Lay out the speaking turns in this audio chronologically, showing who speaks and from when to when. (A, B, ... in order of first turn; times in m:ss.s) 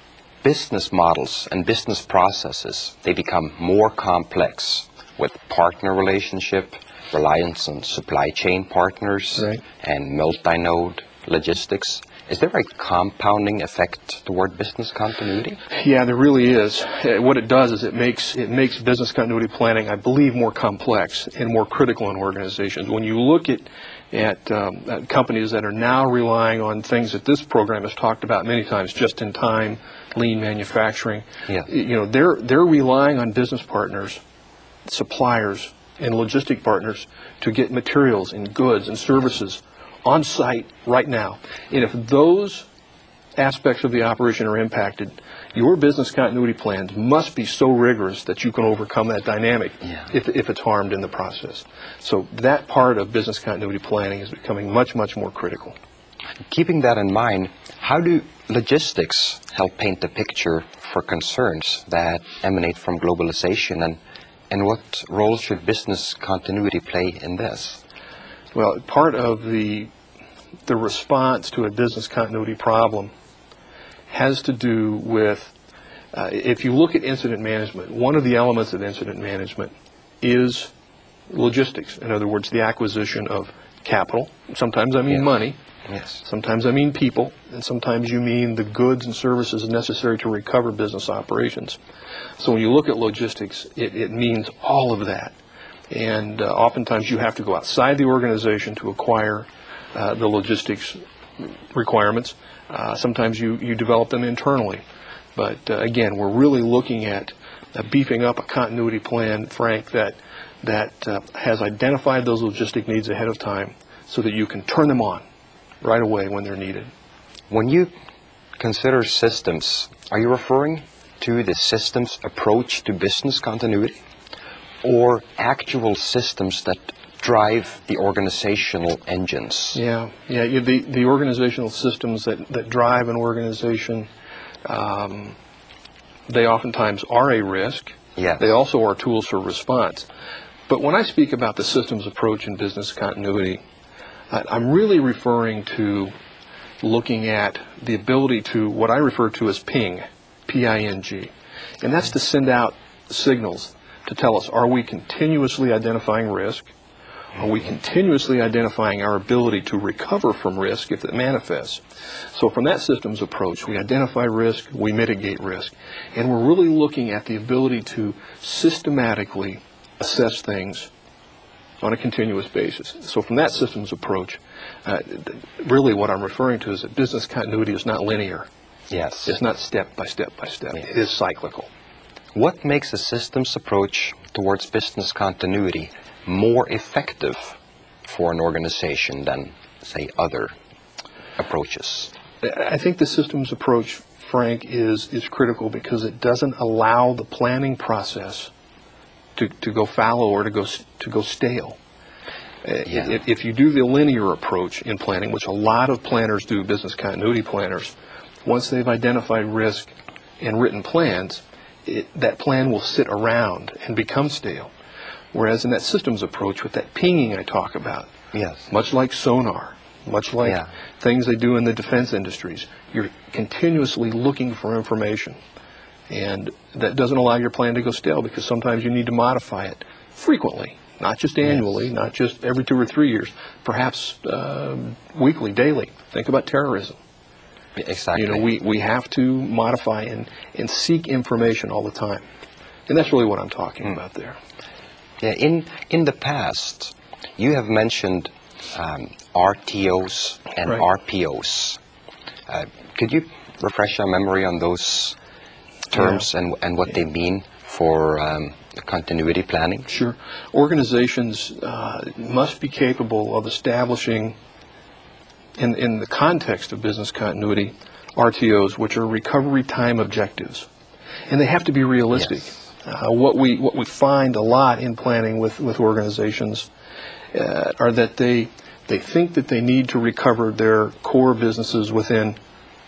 0:00.4-0:15.6 A
0:09.4-0:09.6 B
0:15.7-0:34.2 B
0:34.8-0:42.6 B
0:43.4-0:55.8 B
0:56.5-1:04.0 A
1:04.5-1:07.8 A
1:08.5-1:09.9 B
1:10.6-1:13.1 B
1:14.1-1:15.5 B
1:16.1-1:20.7 B
1:21.3-1:25.6 B
1:25.9-1:26.2 A
1:26.2-1:31.8 B
1:32.4-1:35.4 B
1:35.9-1:44.8 B
1:45.3-1:55.2 B
1:55.8-1:56.9 B
1:57.5-1:57.9 A
1:58.6-2:04.0 A
2:04.8-2:09.8 A
2:09.7-2:14.1 B
2:14.6-2:15.4 B
2:16.3-2:20.1 B
2:18.2-2:18.5 A
2:20.7-2:23.6 B
2:24.3-2:26.1 B
2:26.8-2:36.7 B
2:37.3-2:41.8 B
2:42.3-2:50.9 B
2:51.8-2:58.5 B
2:58.9-2:59.3 A
2:59.2-3:01.7 B
3:02.3-3:10.5 A
3:11.4-3:12.1 A
3:12.4-3:18.5 B
3:19.4-3:21.8 B
3:22.6-3:27.9 B
3:28.4-3:34.7 B
3:35.3-3:38.1 B
3:38.3-3:38.7 A
3:38.7-3:45.4 B
3:46.1-3:57.0 B
3:57.8-3:58.5 A
3:58.1-4:02.2 B
4:02.9-4:04.4 B
4:05.2-4:11.8 A
4:12.5-4:15.2 A
4:15.9-4:16.2 B
4:15.9-4:19.9 A
4:19.9-4:24.4 B
4:25.6-4:30.7 B
4:31.3-4:36.7 B
4:37.3-4:42.4 B